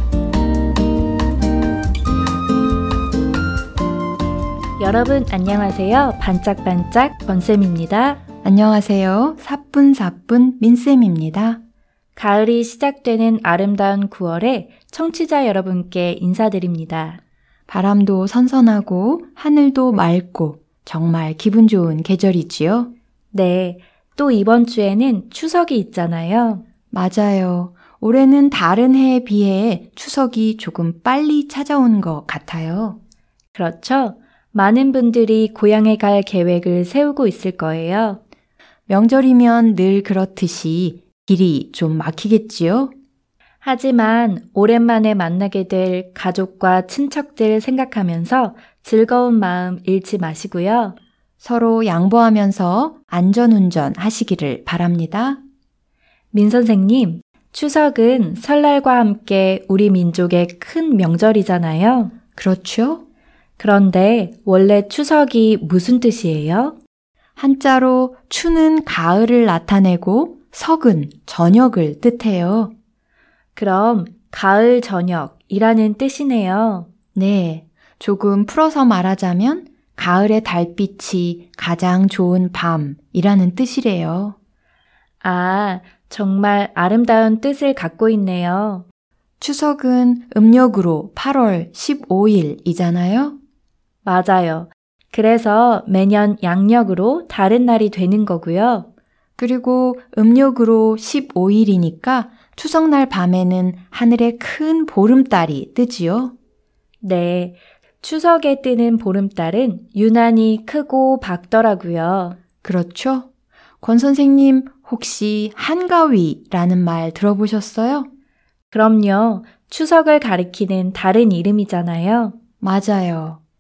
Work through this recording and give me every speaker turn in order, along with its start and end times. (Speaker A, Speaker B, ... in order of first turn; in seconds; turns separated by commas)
Speaker A: 4.8-8.2, Speaker B: 8.4-11.6, Speaker A: 12.2-17.2, Speaker B: 17.7-22.9, Speaker A: 23.3-26.6, Speaker B: 26.9-33.0, Speaker A: 33.5-38.2, Speaker B: 38.9-42.9, Speaker A: 43.6-51.0, Speaker B: 51.4-55.4, Speaker A: 56.3-62.1, Speaker B: 62.4-63.0, Speaker A: 63.6-66.8, Speaker B: 67.4-72.7, Speaker A: 73.5-76.9, Speaker B: 77.2-84.3, Speaker A: 85.2-88.9, Speaker B: 89.4-93.4, Speaker A: 94.0-98.9, Speaker B: 99.4-106.3, Speaker A: 107.0-112.4, Speaker B: 112.6-113.3, Speaker B: 113.8-118.1, Speaker A: 118.7-122.3, Speaker B: 122.6-123.4